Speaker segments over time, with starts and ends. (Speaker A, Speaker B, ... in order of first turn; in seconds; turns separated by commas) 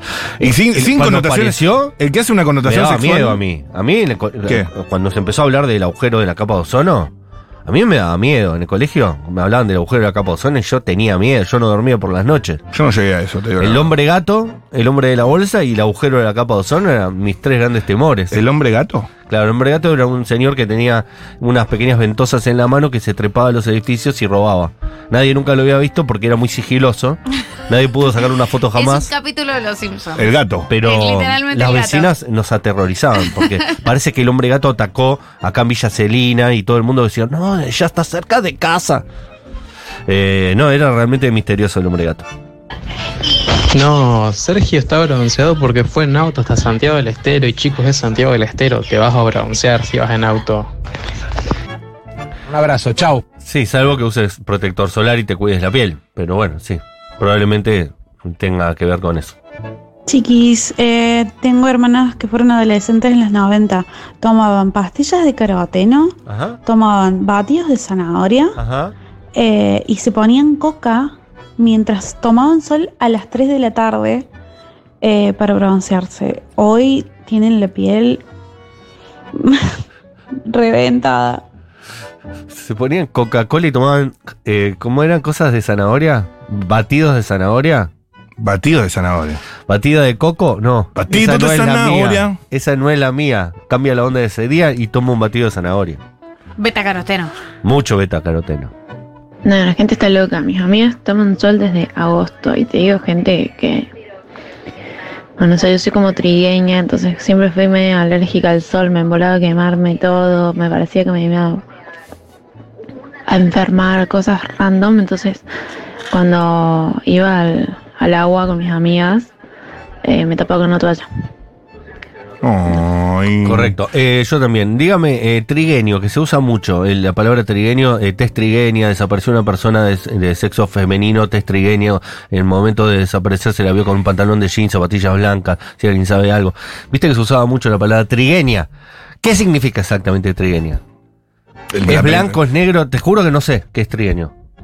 Speaker A: 0.4-3.4, Speaker B: 0.5-1.9, Speaker B: 2.6-7.1, Speaker B: 7.7-12.6, Speaker A: 12.7-13.9, Speaker B: 13.6-18.4, Speaker A: 18.3-19.1, Speaker B: 19.3-29.1, Speaker C: 28.8-30.2, Speaker A: 30.2-30.7, Speaker B: 30.7-39.0, Speaker C: 30.8-32.1, Speaker B: 40.1-42.3, Speaker D: 43.7-50.7, Speaker D: 52.5-53.2, Speaker B: 53.4-59.3, Speaker E: 60.1-68.6, Speaker B: 66.2-66.6, Speaker B: 68.6-68.9, Speaker E: 69.3-74.3, Speaker E: 75.0-78.2, Speaker E: 79.4-79.8, Speaker E: 80.5-81.4, Speaker B: 82.5-87.9, Speaker A: 88.4-89.4, Speaker B: 89.7-96.0, Speaker A: 91.0-92.4, Speaker C: 96.6-97.3, Speaker B: 97.6-98.7, Speaker F: 99.4-103.9, Speaker F: 105.4-111.6, Speaker F: 113.3-115.5, Speaker F: 116.1-119.3, Speaker F: 120.0-121.1, Speaker A: 122.4-123.7, Speaker B: 123.4-138.7, Speaker B: 139.2-140.8, Speaker A: 141.7-142.4, Speaker B: 141.8-144.3